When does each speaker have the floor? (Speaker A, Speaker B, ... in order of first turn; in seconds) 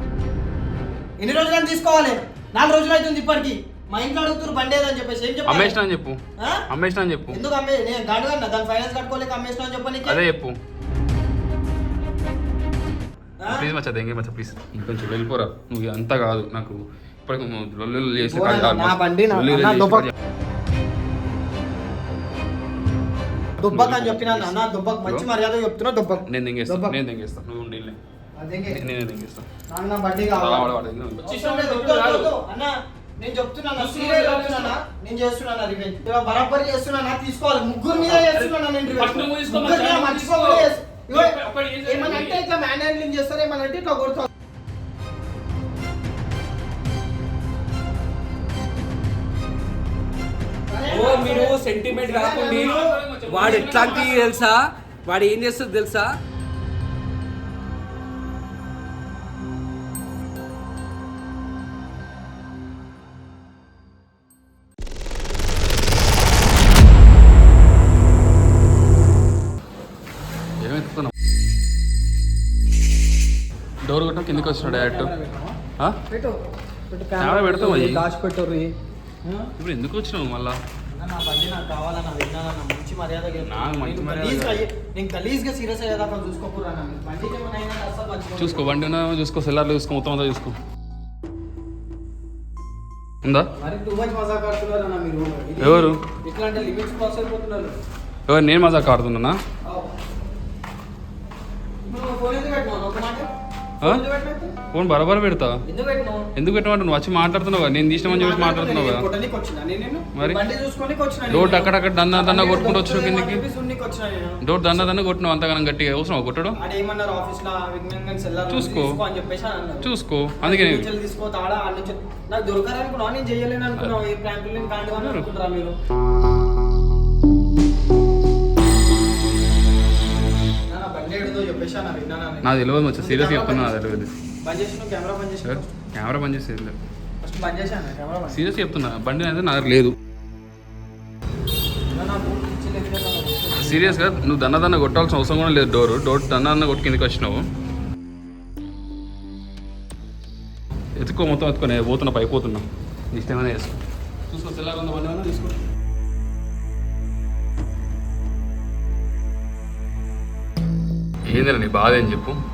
Speaker A: 1.2-5.7, 7.3-10.2, 18.2-20.1, 23.6-27.0, 28.4-28.8, 29.7-30.7, 31.2-44.3, 50.7-54.1, 74.3-75.6, 76.1-78.7, 79.2-79.5, 80.9-88.7, 93.5-97.8, 99.6-99.9, 101.8-103.3, 103.8-104.5, 105.7-106.3, 108.0-114.9, 116.6-119.9, 120.4-125.7, 130.7-133.7, 134.4-135.7, 137.2-138.4, 141.9-144.2
Speaker B: 5.5-6.2, 6.7-7.4, 10.1-10.6, 13.5-20.1, 23.6-25.2, 26.3-28.0, 28.7-29.4, 30.3-32.3, 33.8-34.8, 37.9-42.4, 52.3-54.4, 70.6-71.1, 73.8-75.1, 77.2-78.0, 79.6-80.6, 83.4-84.6, 88.4-90.5, 93.2-93.5, 95.6-96.0, 98.3-99.4, 104.7-105.5, 106.3-109.0, 111.3-113.4, 114.4-116.6, 118.5-119.0, 119.8-120.9, 124.9-125.3, 132.4-134.1, 135.4-136.8, 138.3-139.9, 143.6-147.4, 151.0-153.8, 154.3-155.6, 161.3-162.4
Speaker C: 50.9-52.8, 53.3-56.1